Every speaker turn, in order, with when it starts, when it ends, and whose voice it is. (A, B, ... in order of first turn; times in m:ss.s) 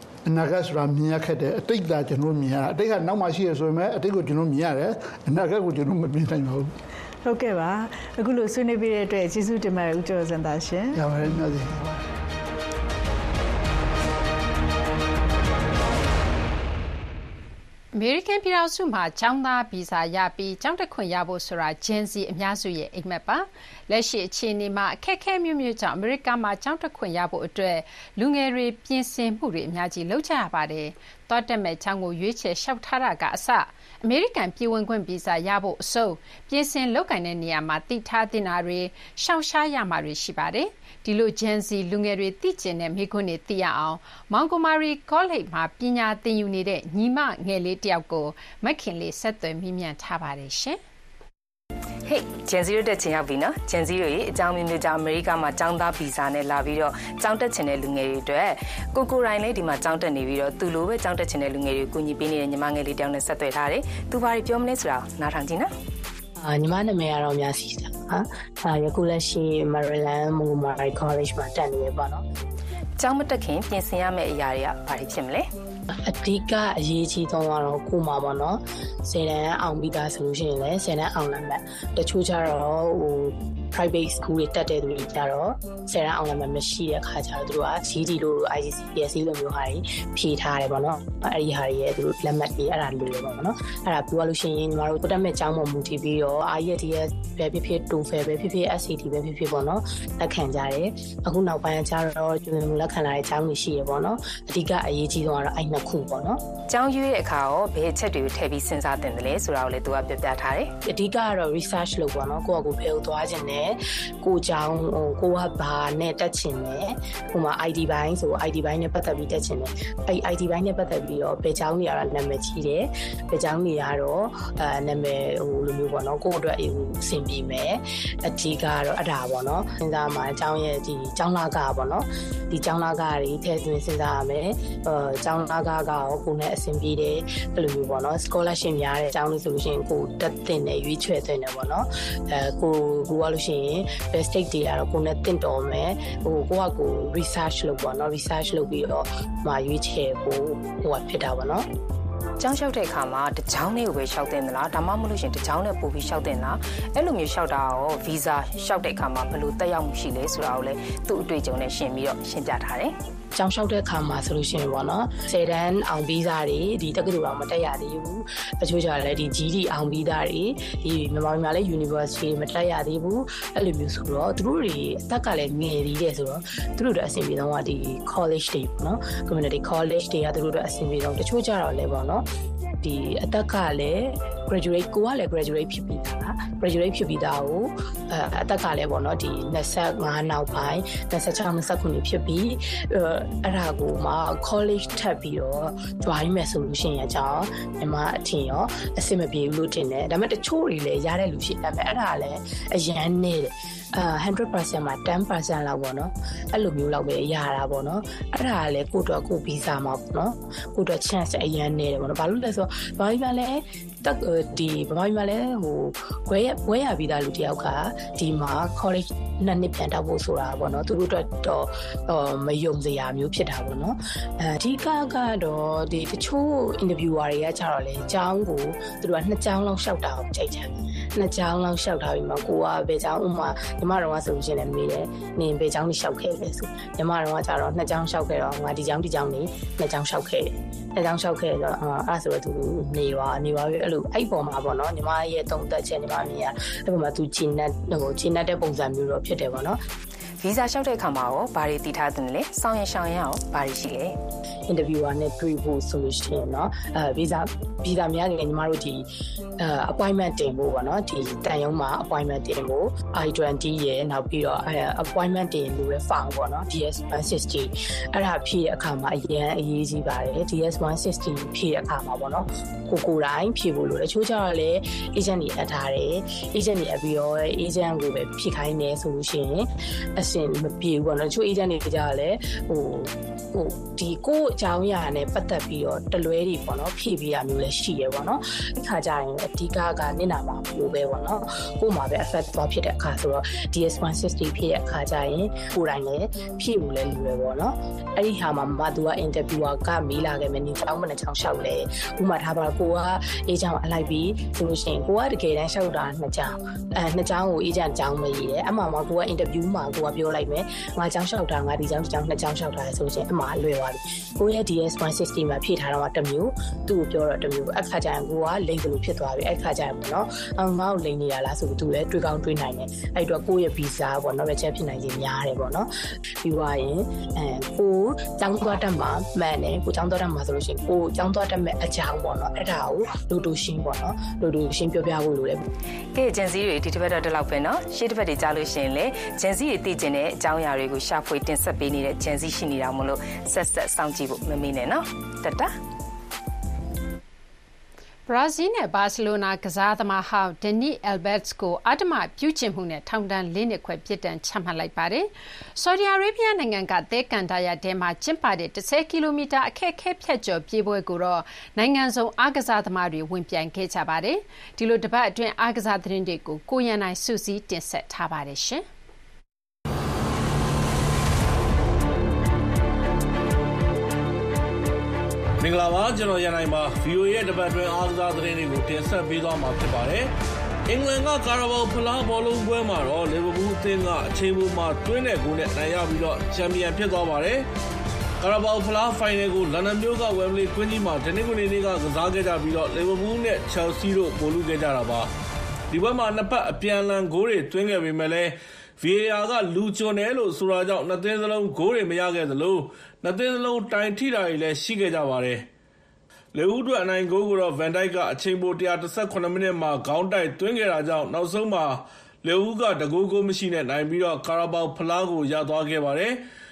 0:00.2-0:06.7 A
0:07.2-0:11.0 B
0:11.0-0:12.0 A
0:17.9-0:50.8 C
0:52.1-1:05.7 D
1:06.4-1:12.2 E
1:13.0-1:15.5 D
1:16.0-1:46.4 E
1:46.7-1:50.7 D
1:50.9-2:31.7 E
2:32.4-2:42.9 D
2:43.4-3:02.2 E
3:02.8-4:09.8 E
4:10.4-4:14.2 D
4:14.7-4:19.0 E
4:19.6-5:25.9 E
5:26.4-5:35.6 E
5:36.2-5:45.7 D
5:48.3-6:08.8 C
6:15.6-6:20.3 F
6:20.9-6:27.7 F
6:28.4-6:35.3 F
6:35.9-6:45.7 F
6:46.5-6:56.4 F